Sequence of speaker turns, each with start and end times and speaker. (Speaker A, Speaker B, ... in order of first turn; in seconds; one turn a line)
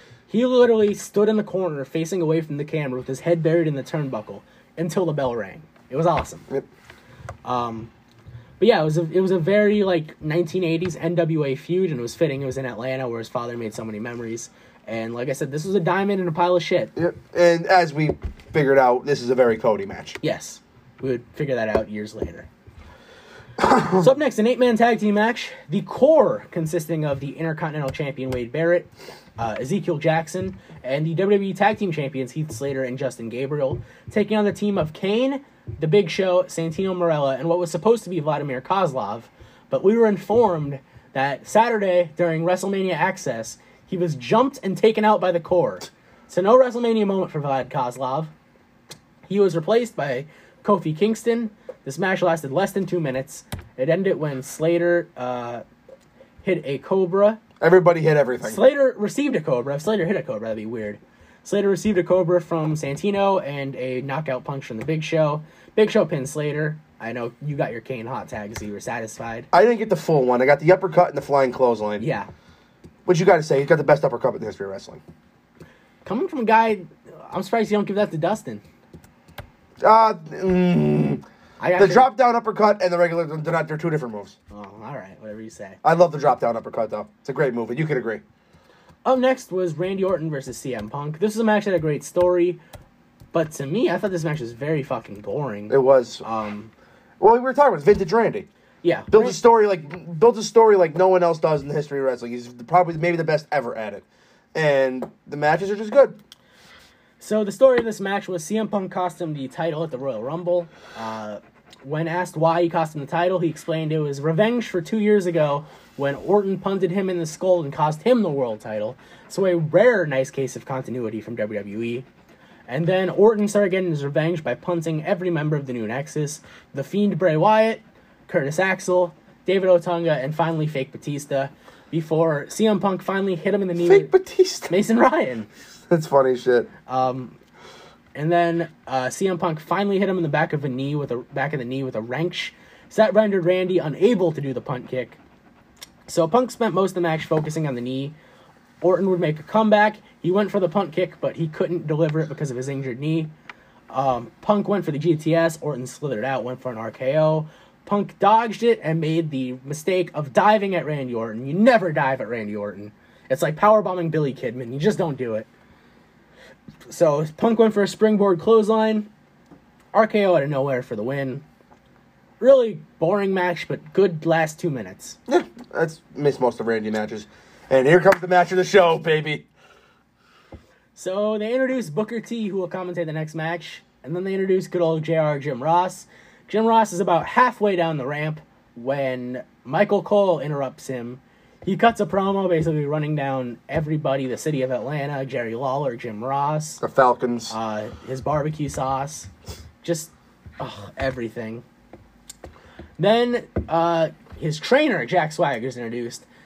Speaker A: 0.3-6.5
Speaker A: 7.5-7.9
Speaker A: 8.6-16.9
Speaker B: 16.9-20.2
Speaker A: 20.2-22.5
Speaker B: 23.6-24.0
Speaker A: 23.9-48.3
Speaker A: 49.3-55.6
Speaker A: 56.4-57.4
Speaker B: 57.6-58.6
Speaker A: 58.4-69.5
Speaker B: 69.5-72.0
Speaker A: 72.0-72.3
Speaker B: 73.0-75.0
Speaker A: 76.0-78.6
Speaker B: 79.8-81.2
Speaker A: 81.6-82.1
Speaker B: 81.8-84.4
Speaker A: 84.5-85.8
Speaker B: 85.8-88.2
Speaker A: 89.0-92.6
Speaker A: 93.3-96.7
Speaker B: 95.7-96.2
Speaker B: 97.2-98.5
Speaker A: 98.8-99.4
Speaker B: 99.1-106.2
Speaker A: 107.2-122.0
Speaker A: 122.7-134.1
Speaker B: 133.8-134.7
Speaker A: 134.7-135.5
Speaker B: 135.9-136.7
Speaker A: 136.9-137.4
Speaker A: 138.1-145.2
Speaker A: 146.1-148.1
Speaker A: 148.8-153.3
Speaker A: 153.9-165.5
Speaker A: 166.9-169.1
Speaker A: 169.9-171.4
Speaker A: 172.4-175.2
Speaker B: 175.3-179.4
Speaker A: 180.9-196.8
Speaker B: 196.8-197.5
Speaker A: 197.5-199.3
Speaker A: 199.8-201.6
Speaker A: 203.0-206.2